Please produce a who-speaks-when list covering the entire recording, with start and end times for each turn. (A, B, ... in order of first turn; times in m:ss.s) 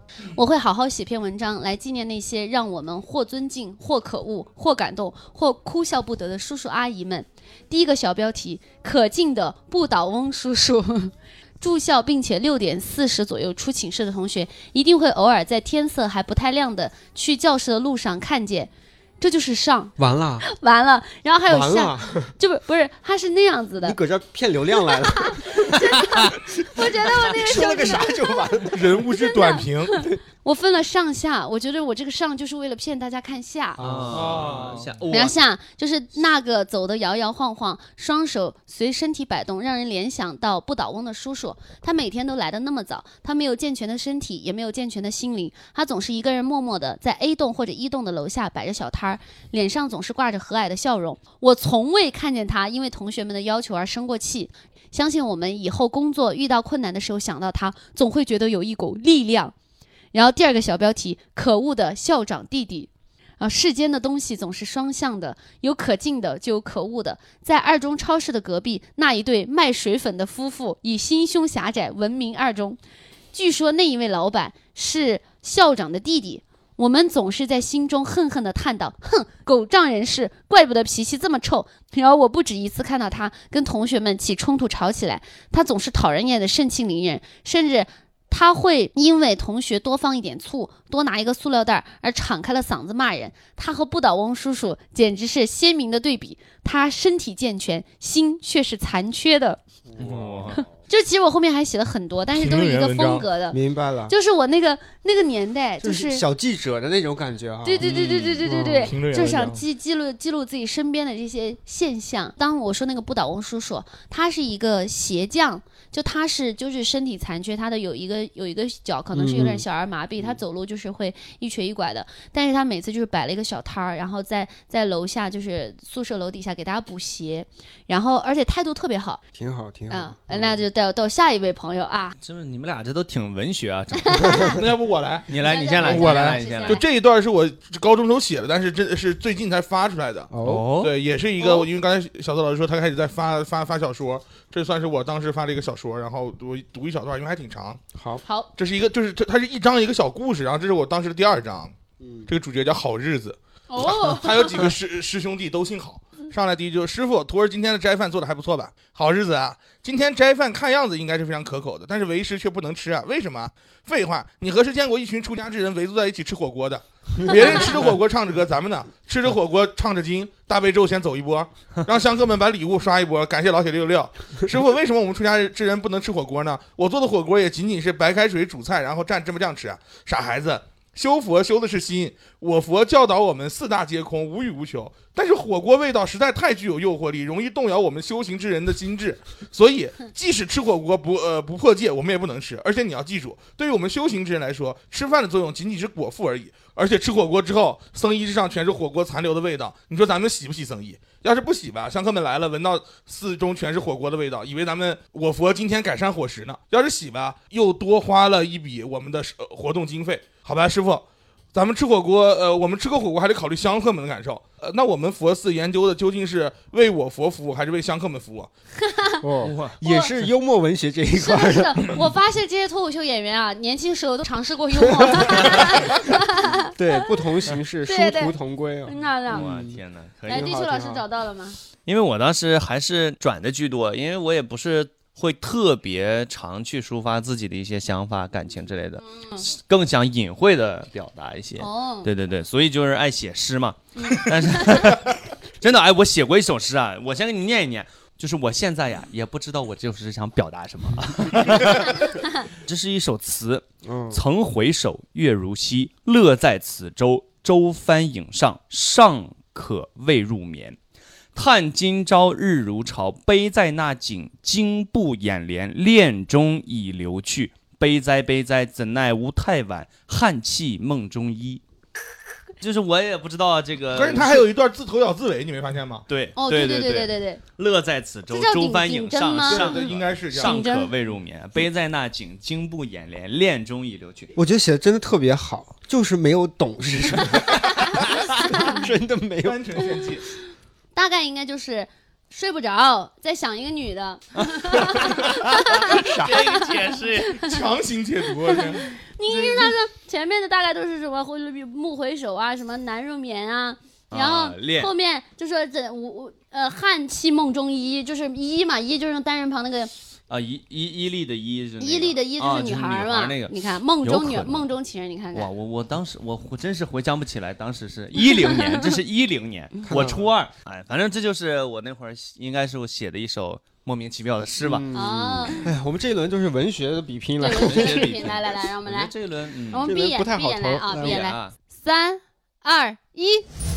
0:00.2-0:24.0 A
0:20.0-0:20.4 B
0:21.5-0:22.3 B
0:23.8-0:25.8 B
0:24.8-0:28.6 A
0:26.6-0:29.0 B
0:28.7-0:30.0 C
0:29.1-0:33.8 A
0:33.8-0:34.8 B
0:33.8-0:35.4 D
0:34.1-0:34.9 C
0:35.1-0:59.5 A
1:00.1-1:12.8 A
1:13.3-1:39.6 A
1:40.0-1:40.6 B
1:40.0-1:40.6 D
1:40.7-1:43.6 A
1:42.3-1:43.3 C
1:43.5-1:44.1 B
1:44.1-1:46.2 A
1:45.8-1:47.9 B
1:47.6-2:09.2 A
1:47.8-1:48.4 D
1:48.4-1:48.9 B
1:48.8-1:49.6 C
1:59.1-1:59.6 B
2:09.3-2:10.6 B
2:09.9-2:12.2 A
2:12.2-2:14.5 D
2:14.0-2:14.6 A
2:14.2-2:14.6 B
2:14.5-2:27.8 C
2:15.3-2:16.8 D
2:15.4-2:16.8 A
2:20.3-2:20.7 B
2:20.4-2:20.9 D
2:21.4-2:21.7 A
2:27.9-2:28.2 B
2:28.2-2:28.5 A
2:28.6-2:31.7 C
2:32.0-2:32.3 B
2:32.2-3:38.5 C
2:33.7-2:34.7 A
3:38.8-3:39.2 A
3:39.2-3:42.0 B
3:39.4-3:39.8 D
3:39.8-3:40.1 A
3:41.2-3:47.1 A
3:44.9-3:45.6 B
3:46.7-3:51.0 B
3:47.8-3:49.4 A
3:49.3-3:50.6 D
3:50.3-3:51.6 A
3:51.8-4:20.8 D
3:59.1-3:59.4 A
4:01.6-4:02.1 A
4:04.0-4:04.8 A
4:13.8-4:14.2 B
4:21.3-4:31.6 D
4:32.6-4:34.4 D
4:33.9-4:36.0 C
4:36.1-4:44.3 D
4:36.4-4:37.4 A
4:38.3-4:40.9 A
4:39.4-4:40.7 C
4:44.4-4:49.8 B
4:49.4-4:50.3 C
4:50.9-4:56.7 A
4:54.6-4:57.5 D
4:55.8-4:56.4 B
4:57.2-4:57.5 A
4:57.4-4:59.0 C
4:58.8-5:09.9 A
5:04.1-5:04.9 D
5:10.3-5:14.7 D
5:11.8-5:15.5 A
5:15.3-5:25.7 D
5:19.9-5:20.3 B
5:24.6-5:28.3 B
5:24.9-5:25.6 A
5:27.4-5:29.1 A
5:27.5-5:29.9 D
5:29.7-5:33.5 A
5:29.8-5:31.3 B
5:30.9-5:31.5 D